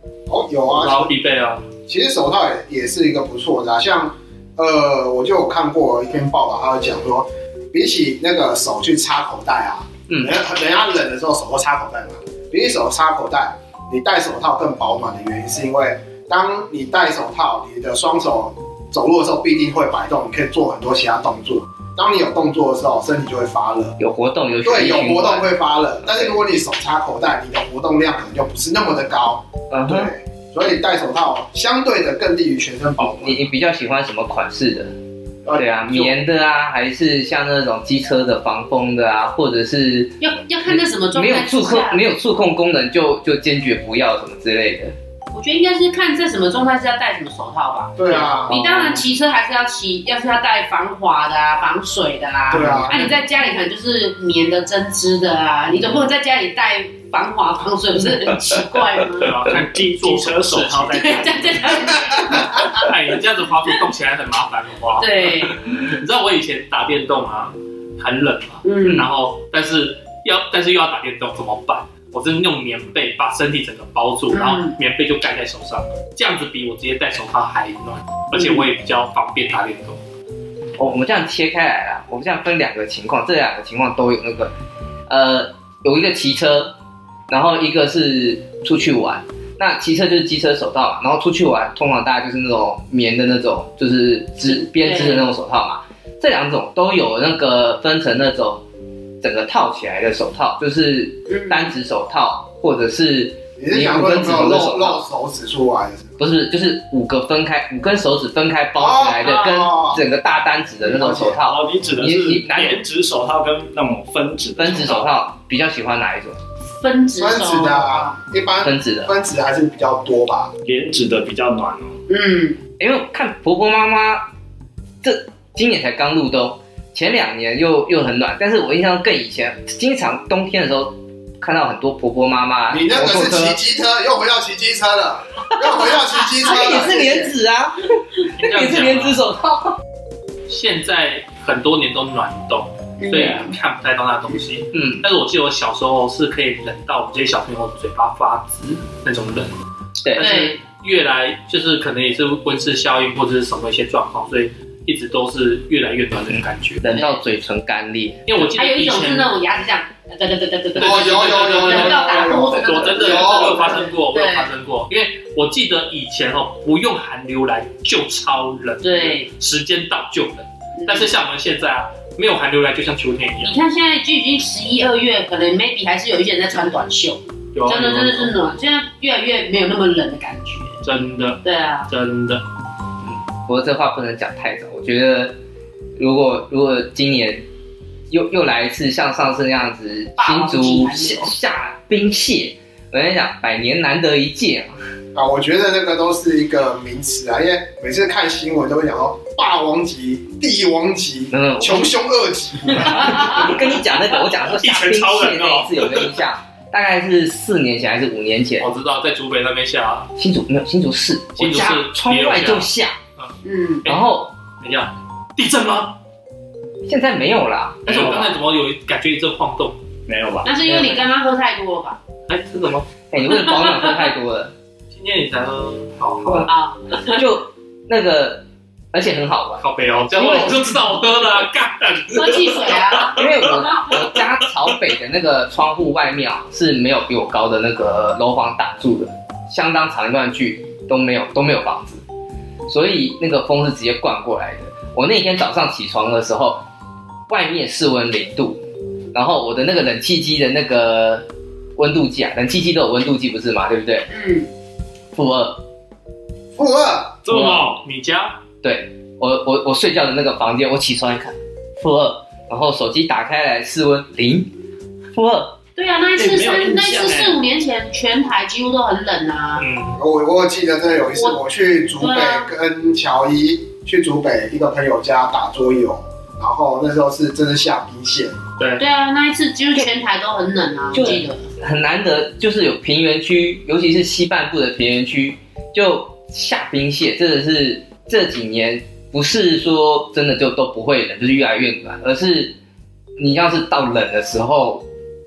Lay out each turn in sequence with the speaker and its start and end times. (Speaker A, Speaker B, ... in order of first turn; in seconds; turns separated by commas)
Speaker A: 0.3-1.1, Speaker B: 0.7-1.7, Speaker A: 1.9-23.9, Speaker C: 24.0-25.5, Speaker A: 24.6-33.5, Speaker C: 26.0-26.4, Speaker C: 29.7-30.1, Speaker C: 33.0-34.9, Speaker A: 35.5-36.1, Speaker C: 35.6-44.9, Speaker D: 40.2-42.0, Speaker D: 45.3-59.3, Speaker A: 48.0-48.7, Speaker A: 52.5-53.1, Speaker B: 59.2-61.1, Speaker E: 59.5-62.0, Speaker D: 60.9-62.8, Speaker B: 62.5-80.0, Speaker D: 65.0-65.6, Speaker D: 68.6-69.1, Speaker D: 74.3-74.8, Speaker D: 78.3-78.7, Speaker C: 80.8-84.5, Speaker C: 85.1-86.7, Speaker C: 87.3-98.6, Speaker D: 94.5-95.3, Speaker C: 99.2-105.0, Speaker D: 101.3-101.7, Speaker A: 103.6-106.2, Speaker C: 106.2-112.8, Speaker A: 108.8-110.0, Speaker D: 109.2-109.5, Speaker A: 110.8-111.4, Speaker E: 111.4-115.1, Speaker C: 114.6-116.4, Speaker D: 116.8-118.2, Speaker A: 117.2-120.5, Speaker C: 118.6-119.1, Speaker E: 120.7-122.0, Speaker D: 122.1-122.6, Speaker C: 122.8-124.2, Speaker C: 125.0-133.6, Speaker A: 132.7-137.3, Speaker C: 135.8-139.8, Speaker B: 138.4-139.2, Speaker B: 140.5-149.5, Speaker D: 143.0-143.5, Speaker C: 143.1-143.4, Speaker C: 144.7-145.1, Speaker C: 150.0-150.3, Speaker B: 150.1-156.9, Speaker D: 150.2-150.6, Speaker C: 156.3-158.3, Speaker B: 158.3-159.3, Speaker D: 158.5-164.5, Speaker B: 160.8-173.6, Speaker A: 160.8-163.8, Speaker C: 162.3-162.8, Speaker D: 168.8-169.3, Speaker D: 170.8-171.1, Speaker D: 173.4-180.8, Speaker B: 177.5-178.3, Speaker B: 180.8-182.4, Speaker D: 181.4-181.9, Speaker C: 183.0-185.3, Speaker C: 186.0-187.4, Speaker C: 188.1-194.8, Speaker D: 190.2-191.3, Speaker A: 195.1-203.5, Speaker C: 201.3-201.9, Speaker C: 202.8-208.7, Speaker D: 203.0-203.4, Speaker B: 204.5-206.1, Speaker B: 208.6-210.1, Speaker C: 210.2-213.0, Speaker B: 211.4-214.1, Speaker D: 213.4-213.8, Speaker C: 213.9-214.3, Speaker B: 214.6-216.0, Speaker C: 216.9-218.3, Speaker B: 217.9-219.8, Speaker E: 220.1-220.5, Speaker D: 220.4-222.0, Speaker C: 220.6-221.1, Speaker B: 222.3-222.9, Speaker C: 223.1-224.5, Speaker D: 223.2-224.1, Speaker B: 224.9-226.5, Speaker C: 226.2-226.5, Speaker D: 226.5-227.2, Speaker C: 227.1-229.6, Speaker B: 229.6-234.2, Speaker C: 230.2-230.8, Speaker D: 232.1-233.2, Speaker C: 233.1-242.0, Speaker C: 242.7-246.6, Speaker C: 247.3-248.6, Speaker C: 249.1-251.2, Speaker C: 251.8-254.1, Speaker D: 254.1-254.5, Speaker C: 255.1-255.6, Speaker A: 256.6-257.2, Speaker E: 257.2-257.8, Speaker C: 257.3-257.7, Speaker B: 257.8-258.4, Speaker C: 258.6-264.5, Speaker C: 265.1-265.6, Speaker D: 265.8-269.7, Speaker E: 266.2-267.4, Speaker B: 269.6-270.0, Speaker A: 270.0-278.4, Speaker D: 272.0-272.5, Speaker B: 278.6-278.8, Speaker D: 278.8-281.5, Speaker C: 280.9-292.6, Speaker C: 293.2-294.8